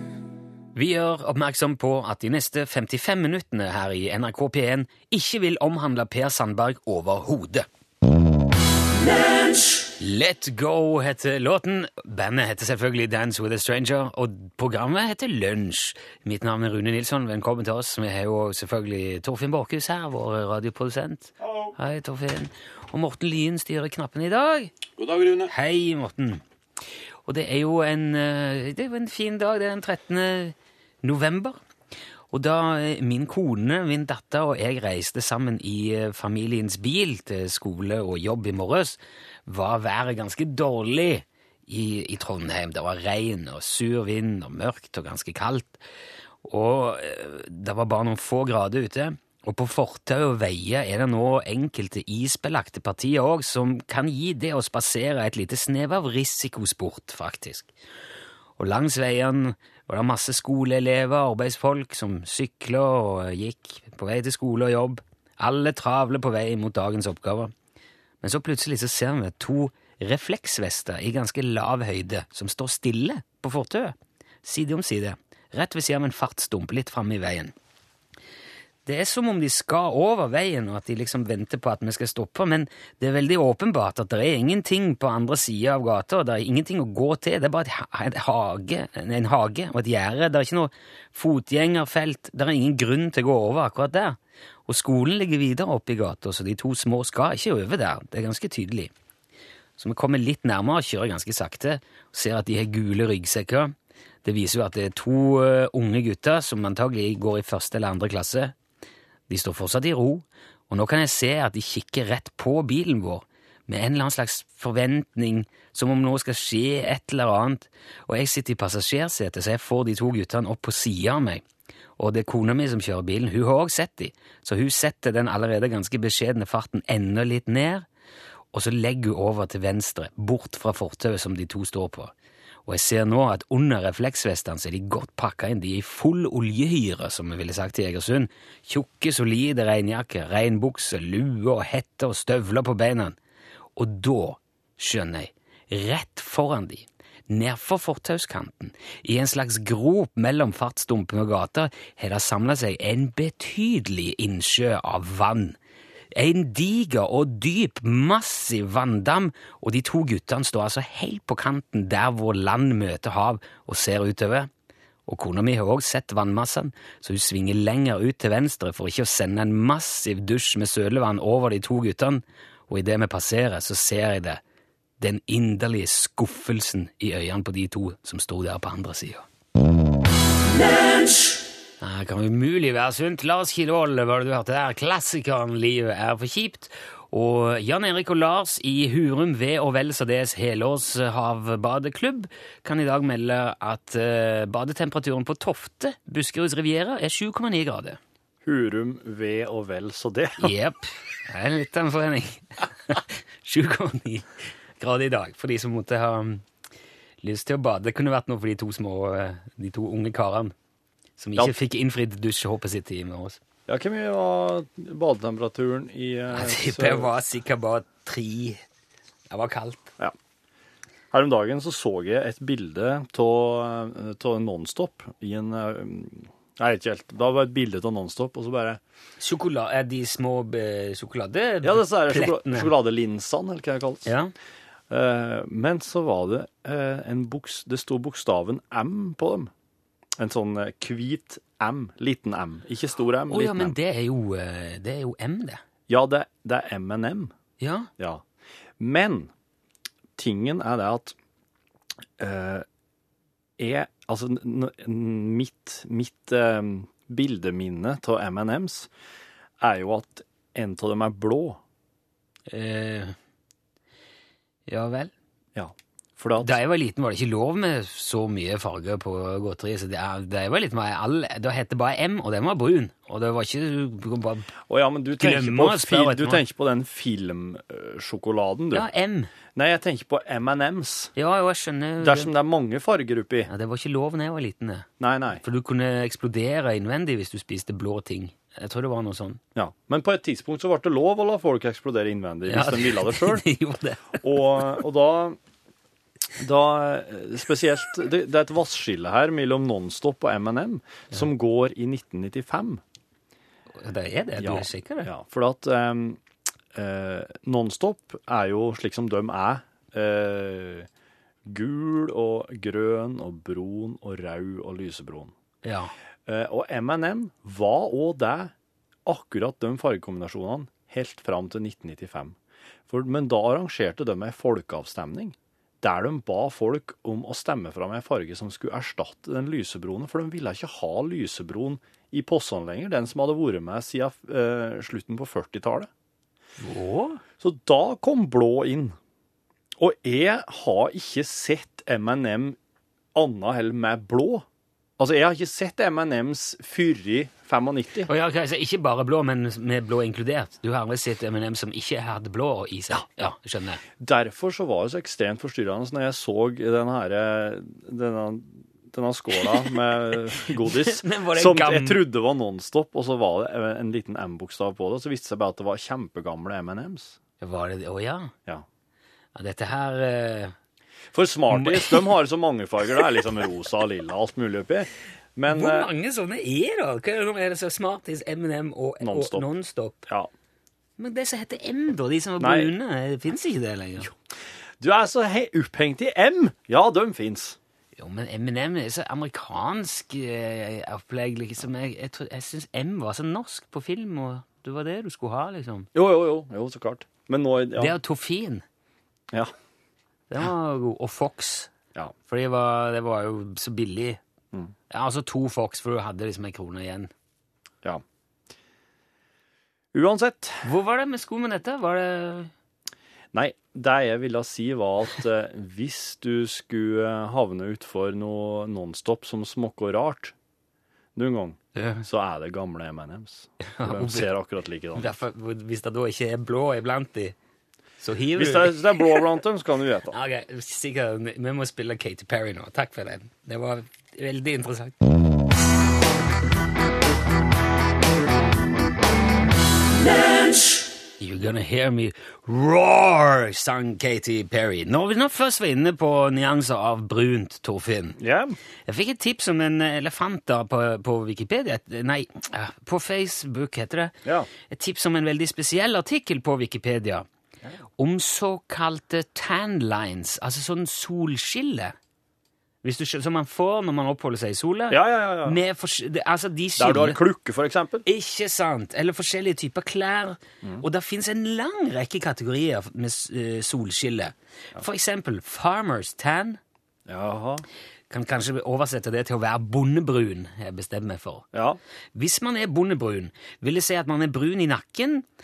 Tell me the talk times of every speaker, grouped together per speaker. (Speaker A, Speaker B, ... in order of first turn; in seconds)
Speaker A: 0.7-7.7, 10.0-24.7, 25.4-26.4, 27.2-31.6, 32.3-45.8, 46.4-57.7, 58.6-67.5, 68.2-77.5, 78.8-98.9, 99.8-108.5, 109.3-121.4, 122.0-127.8, 128.5-132.1, 132.7-143.2, 143.8-155.6, 156.1-164.5, 165.1-174.4, 175.0-179.2, 181.8-198.0, 200.4-204.3, 204.8-206.4, 207.2-210.5, 211.2-213.4, 216.3-218.6, 219.3-219.9, 229.2-232.7, 234.1-234.3, 243.3-245.6, 247.6-247.9, 262.5-263.1, 264.7-265.1, 266.4-274.5, 275.2-276.4, 278.7-279.3, 281.1-282.3, 283.5-284.9, 285.4-289.4, 292.5-294.2, 303.8-305.1, 315.6-315.9, 336.6-337.2, 348.1-353.8, 360.5-362.1, 367.4-368.3, 369.3-370.5, 371.5-372.1, 375.5-380.1, 381.0-384.1, 388.0-395.9, 397.8-398.6, 400.3-401.7, 402.3-404.2, 404.9-407.1, 410.6-412.5, 421.7-422.0, 423.7-424.3, 424.9-427.3, 428.0-429.2, 430.1-434.9, 441.2-448.2, 448.9-454.1, 454.7-457.2, 458.0-461.9, 462.8-467.2, 468.1-476.6, 478.1-481.5, 482.1-485.2
Speaker B: 25.0-25.4, 198.4-200.5, 213.7-217.1, 221.1-228.8, 231.6-234.1, 234.9-239.5, 240.2-243.7, 245.9-247.3, 248.0-248.2, 248.8-249.3, 250.2-251.2, 252.2-252.7, 253.6-258.9, 259.6-261.6, 265.5-266.5, 274.7-278.9, 279.5-281.1, 282.0-283.5, 285.0-285.4, 289.5-293.5, 294.2-295.4, 296.4-302.8, 304.4-306.2, 306.7-310.9, 311.4-315.3, 316.2-318.5, 319.1-322.4, 322.9-335.9, 337.4-338.9, 339.8-342.6, 343.1-344.4, 345.0-348.1, 354.0-367.2, 371.1-375.9, 379.0-379.5, 382.4-382.7, 384.8-387.6, 395.9-397.9, 409.9-410.6, 413.3-420.3, 421.1-425.1, 428.4-430.1, 448.2-448.6, 464.9-465.6, 466.8-468.1, 477.1-477.6, 481.5-481.8